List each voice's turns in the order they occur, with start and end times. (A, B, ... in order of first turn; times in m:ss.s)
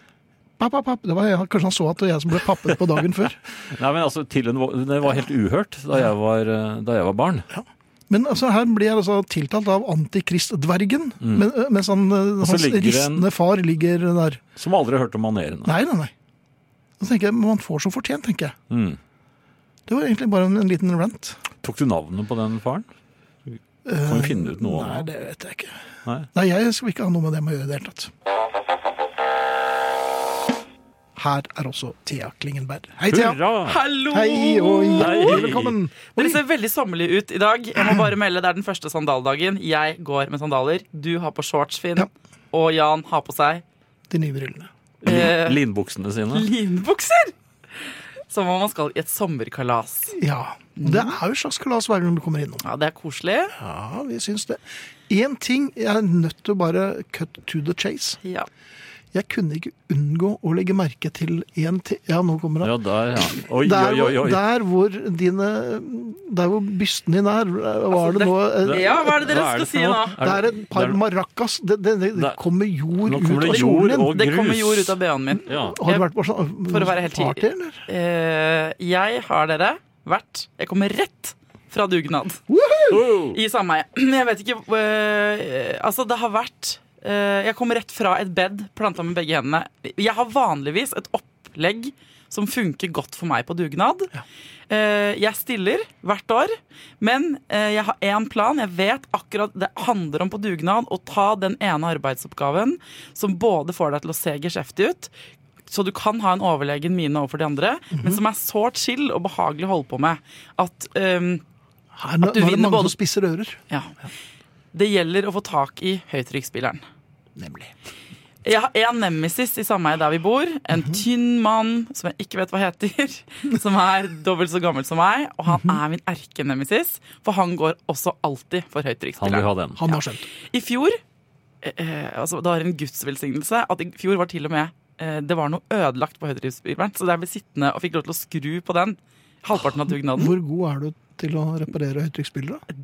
0:00.6-0:03.4 A
0:03.6-0:07.5 B
0:07.5-0:14.4 A
0:11.2-0:11.5 B
0:12.4-0:13.3 B
0:14.6-0:15.7 B
0:15.6-0:16.1 A
0:17.0-0:18.5 A
0:18.7-0:19.0 B
0:19.9-0:21.4 A
0:21.6-0:22.9 B
0:23.8-0:25.8 A
0:24.0-0:25.1 B
0:26.3-0:28.1 A
0:31.2-0:33.4 A
0:33.1-0:33.8 B
0:33.6-0:35.6 C
0:34.1-0:36.4 A
0:35.0-0:35.8 B
0:36.2-0:43.6 C
0:44.1-0:44.7 A
0:45.0-0:46.4 B
0:45.0-0:45.6 C
0:46.3-0:47.3 C
0:48.3-0:50.2 C
0:50.2-0:52.6 A
0:50.8-0:51.2 C
0:52.6-0:53.6 C
0:53.6-0:58.2 A
0:58.2-0:58.5 C
0:59.1-1:02.7 A
1:02.6-1:04.4 B
1:03.4-1:09.2 A
1:07.9-1:10.2 C
1:08.6-1:11.0 B
1:10.2-1:14.2 A
1:13.0-1:15.8 B
1:13.4-1:16.1 C
1:15.5-1:17.8 A
1:16.7-1:22.4 C
1:22.5-1:23.0 A
1:22.9-1:23.4 B
1:23.2-1:34.1 C
1:34.7-1:45.1 C
1:45.7-1:51.4 C
1:47.9-1:48.2 A
1:52.0-1:53.6 A
1:52.2-1:52.9 C
1:53.7-1:53.9 C
1:54.7-1:56.8 C
1:57.4-1:57.7 A
1:58.4-2:11.0 C
2:09.2-2:09.8 B
2:09.8-2:10.2 A
2:11.6-2:20.3 C
2:20.1-2:22.6 A